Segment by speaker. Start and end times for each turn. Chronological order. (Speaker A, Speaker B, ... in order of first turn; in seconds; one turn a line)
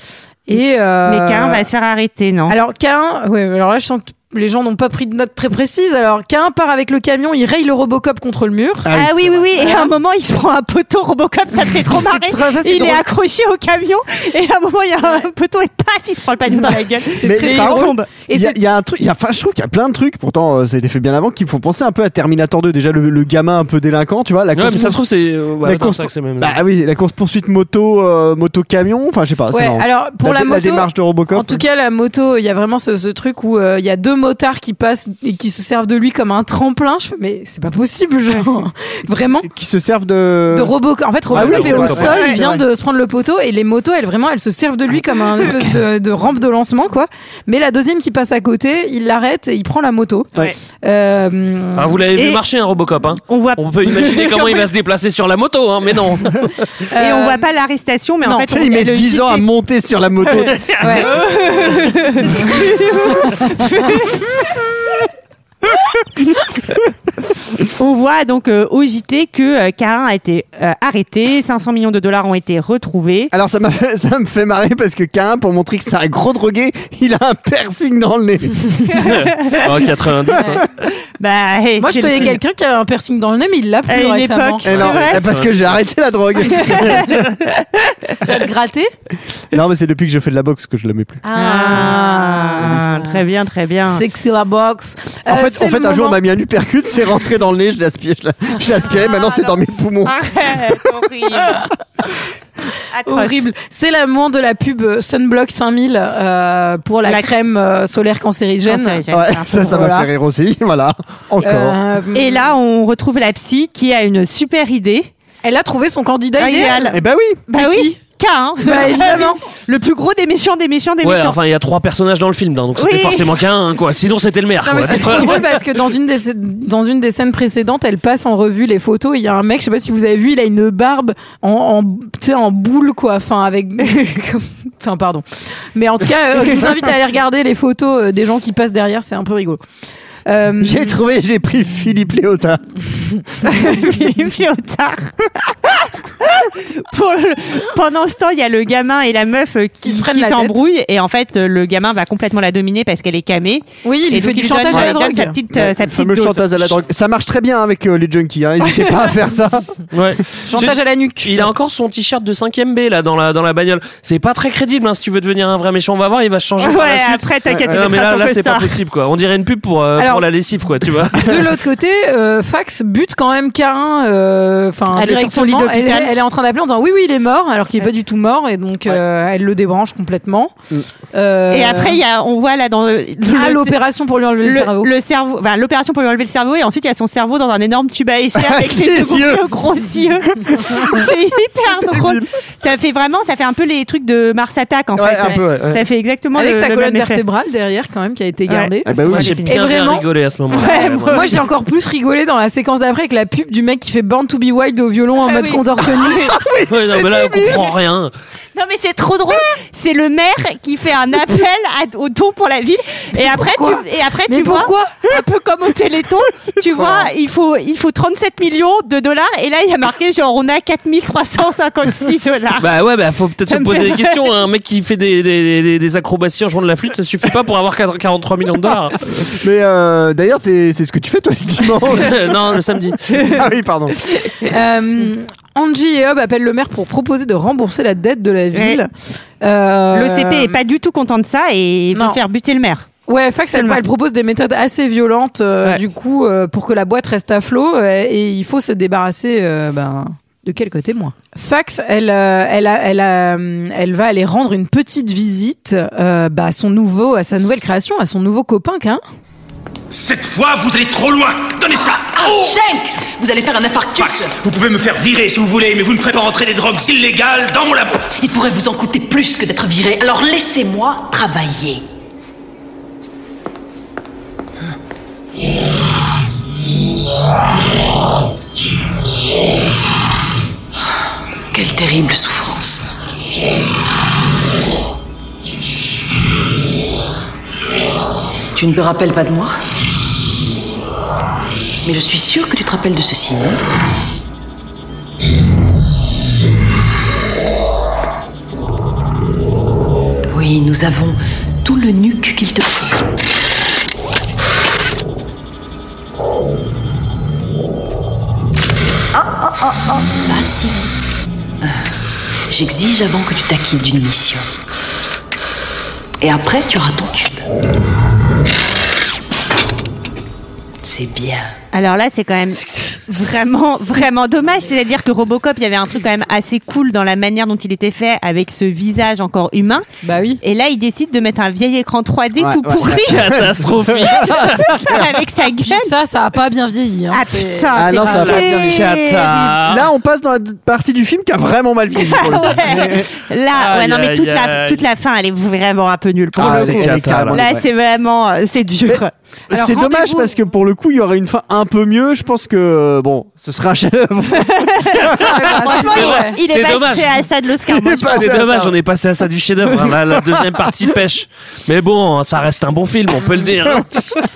Speaker A: 0.5-1.7
Speaker B: 1.1-2.6
Speaker A: 2.5-9.0
Speaker C: 8.8-9.5
Speaker B: 8.9-18.1
Speaker A: 9.6-9.9
Speaker A: 11.8-13.1
Speaker A: 17.1-18.6
Speaker C: 17.2-25.0
Speaker D: 24.6-26.6
Speaker C: 25.6-31.6
Speaker A: 29.5-39.5
Speaker C: 39.2-40.7
Speaker A: 40.5-50.3
Speaker C: 41.3-42.6
Speaker D: 41.4-42.1
Speaker B: 42.0-42.6
Speaker A: 50.8-52.0
Speaker D: 51.8-56.5
Speaker B: 52.2-52.4
Speaker B: 53.3-54.6
Speaker A: 56.9-57.5
Speaker B: 57.0-59.5
Speaker C: 58.5-61.1
Speaker D: 60.5-60.8
Speaker A: 60.8-61.1
Speaker B: 61.0-64.4
Speaker B: 67.6-73.3
Speaker C: 73.3-78.9
Speaker B: 78.9-79.7
Speaker D: 79.0-80.6
Speaker B: 81.2-82.4
Speaker A: 81.8-85.0
Speaker B: 83.9-85.2
Speaker C: 84.7-87.2
Speaker D: 85.2-85.6
Speaker B: 86.5-87.4
Speaker B: 87.9-88.3
Speaker A: 88.2-88.9
Speaker C: 89.5-91.2
Speaker A: 91.3-92.9
Speaker B: 91.3-94.0
Speaker A: 93.9-96.2
Speaker C: 95.3-100.8
Speaker B: 98.9-101.7
Speaker B: 102.9-103.5
Speaker A: 103.1-109.0
Speaker B: 108.7-109.8
Speaker C: 109.1-111.8
Speaker A: 109.5-110.1
Speaker A: 111.4-112.5
Speaker B: 112.1-115.1
Speaker A: 115.4-117.0
Speaker B: 116.4-121.4
Speaker C: 116.9-117.4
Speaker A: 117.5-118.0
Speaker A: 118.6-119.4
Speaker D: 121.0-125.6
Speaker B: 122.8-123.3
Speaker A: 124.7-139.6
Speaker A: 140.3-140.9
Speaker C: 140.6-142.7
Speaker B: 143.4-156.8
Speaker A: 149.8-150.6
Speaker A: 153.8-155.4
Speaker C: 155.5-159.8
Speaker D: 159.9-171.4
Speaker A: 160.5-161.4
Speaker B: 166.6-168.8
Speaker C: 167.5-167.8
Speaker A: 170.0-170.2
Speaker A: 171.2-180.6
Speaker B: 174.9-176.1
Speaker A: 181.1-182.0
Speaker B: 181.5-183.8
Speaker A: 183.3-184.9
Speaker B: 184.4-197.2
Speaker C: 188.3-189.5
Speaker C: 190.5-191.1
Speaker C: 191.7-192.3
Speaker C: 194.9-195.8
Speaker A: 196.3-200.1
Speaker B: 198.5-199.6
Speaker C: 198.9-199.4
Speaker D: 199.1-201.4
Speaker B: 200.5-201.3
Speaker A: 200.8-206.4
Speaker B: 205.2-205.6
Speaker C: 206.2-207.7
Speaker D: 206.7-208.1
Speaker B: 208.6-222.7
Speaker A: 213.2-215.2
Speaker C: 216.7-217.1
Speaker D: 222.6-229.0
Speaker B: 223.5-224.2
Speaker C: 229.1-232.4
Speaker D: 231.9-233.1
Speaker C: 233.1-234.0
Speaker A: 234.4-240.6
Speaker B: 238.5-238.8
Speaker B: 239.9-242.9
Speaker A: 241.9-242.2
Speaker A: 243.1-259.0
Speaker B: 243.5-243.8
Speaker E: 259.9-262.5
Speaker F: 262.1-264.4
Speaker E: 264.0-268.1
Speaker F: 268.1-271.8
Speaker F: 281.5-282.9
Speaker F: 288.6-289.5
Speaker F: 291.8-293.6
Speaker F: 300.3-303.0
Speaker F: 309.2-310.9
Speaker F: 312.5-314.5
Speaker F: 316.2-317.4
Speaker F: 320.8-321.5
Speaker B: 321.7-329.9
Speaker A: 330.0-330.4
Speaker B: 330.4-333.5
Speaker C: 332.4-335.1
Speaker D: 332.8-334.9
Speaker B: 334.0-335.9
Speaker A: 335.6-338.4
Speaker B: 337.1-339.6
Speaker C: 337.7-343.1
Speaker D: 338.1-339.9
Speaker B: 342.0-349.1
Speaker D: 343.5-344.8
Speaker D: 346.4-347.4
Speaker C: 346.4-347.6
Speaker C: 348.9-355.2
Speaker A: 349.5-350.3
Speaker B: 354.5-358.6
Speaker D: 355.1-357.2
Speaker A: 355.2-356.4
Speaker C: 357.7-358.7
Speaker D: 358.1-364.3
Speaker C: 359.8-360.6